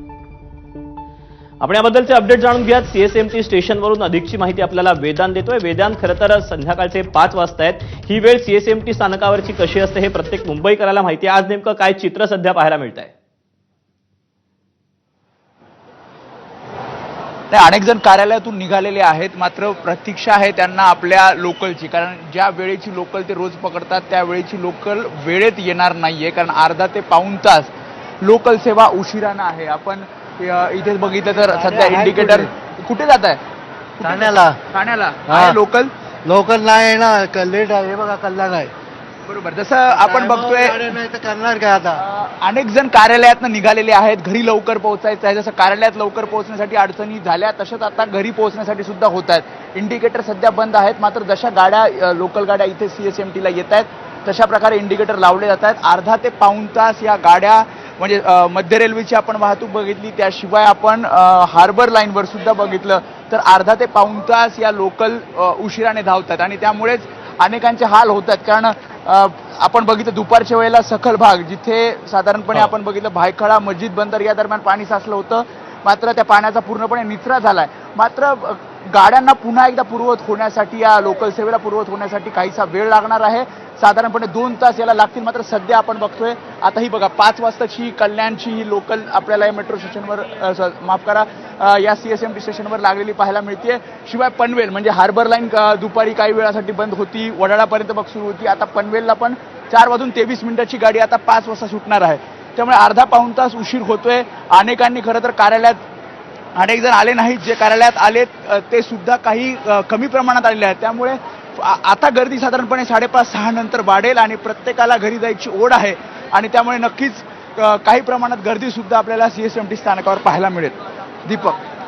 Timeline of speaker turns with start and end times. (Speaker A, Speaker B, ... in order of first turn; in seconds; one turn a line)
Speaker A: 1.6-13.1
Speaker B: 17.5-33.4
Speaker C: 31.5-32.5
Speaker B: 34.0-35.9
Speaker C: 34.0-34.6
Speaker C: 35.3-35.6
Speaker C: 36.2-38.7
Speaker B: 39.2-40.9
Speaker C: 39.9-42.0
Speaker B: 42.0-105.8
Speaker B: 106.5-121.6